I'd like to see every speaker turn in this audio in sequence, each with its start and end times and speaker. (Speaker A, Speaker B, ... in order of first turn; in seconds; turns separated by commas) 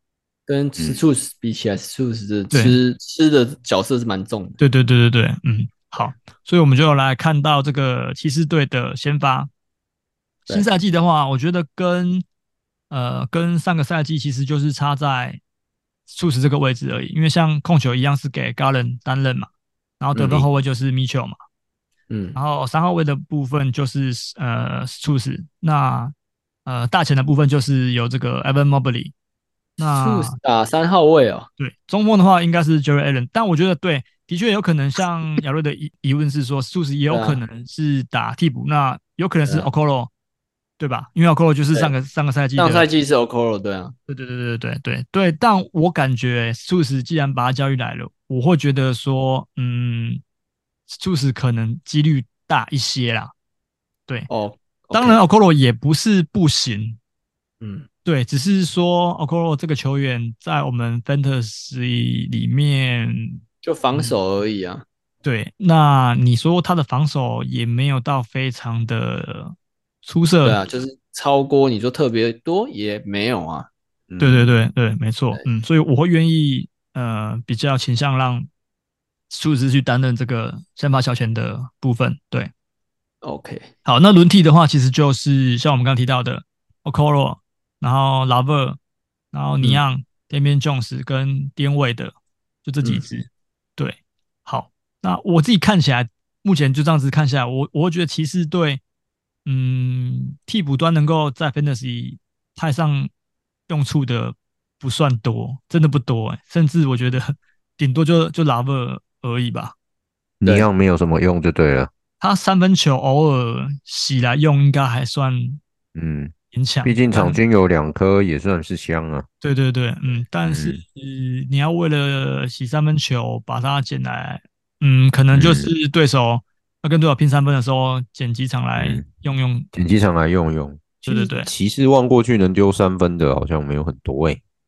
Speaker A: 0.5-4.6, Speaker B: 2.5-2.8, Speaker B: 4.6-9.5, Speaker B: 10.5-12.2, Speaker B: 12.9-15.4, Speaker B: 16.1-21.4, Speaker A: 20.1-20.4, Speaker A: 22.1-22.4, Speaker B: 22.4-26.1, Speaker B: 26.6-29.1, Speaker B: 29.8-30.4, Speaker A: 29.8-31.5, Speaker B: 31.6-40.1, Speaker A: 37.1-37.4, Speaker B: 40.8-42.9, Speaker A: 42.6-43.9, Speaker B: 44.1-50.2, Speaker B: 50.9-53.3, Speaker A: 54.3-55.2, Speaker B: 54.9-57.0, Speaker A: 57.6-57.9, Speaker B: 58.0-63.4, Speaker A: 63.6-64.8, Speaker B: 65.2-70.6, Speaker A: 70.4-73.7, Speaker C: 74.1-74.5, Speaker B: 74.2-78.5, Speaker B: 79.3-82.5, Speaker A: 83.2-83.7, Speaker B: 83.8-88.8, Speaker B: 89.3-98.8, Speaker B: 99.5-103.1, Speaker B: 103.7-109.7, Speaker C: 110.4-111.9, Speaker B: 112.2-115.6, Speaker C: 115.9-116.3, Speaker B: 116.5-117.4, Speaker C: 116.8-119.3, Speaker B: 119.4-129.7, Speaker C: 120.5-120.8, Speaker C: 125.3-125.7, Speaker C: 128.8-129.1, Speaker C: 129.7-134.4, Speaker B: 131.0-131.5